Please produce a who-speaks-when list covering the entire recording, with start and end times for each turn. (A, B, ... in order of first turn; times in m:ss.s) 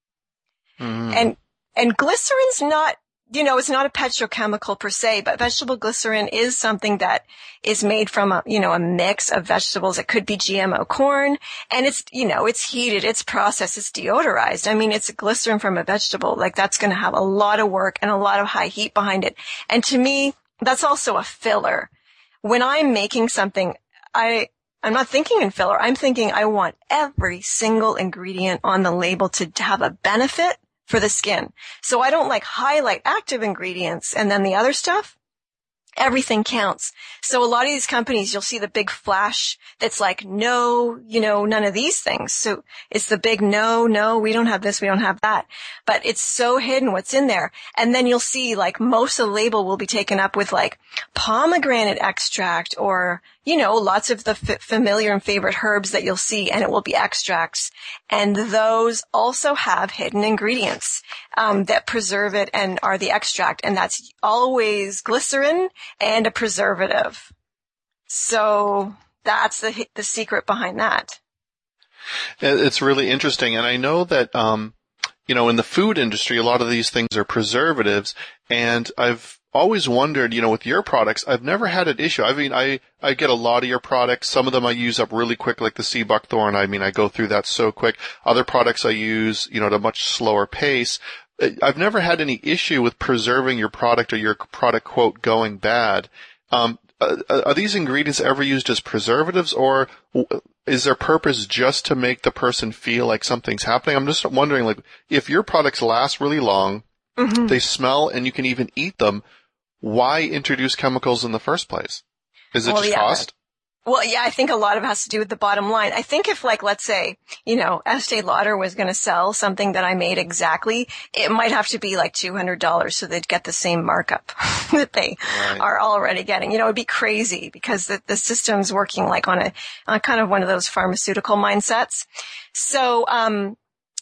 0:00.8-0:01.3 A
0:01.1-0:21.9 B
0:22.4-0:35.2 B
0:36.0-1:07.3 B
1:08.1-1:11.2 B
1:12.4-1:14.8 A
1:15.3-1:46.8 A
1:47.2-1:47.6 B
1:47.5-1:49.2 A
1:49.8-1:52.0 A
1:52.5-1:53.3 A
1:52.6-1:53.3 B
1:53.9-2:13.6 B
2:05.3-2:05.6 A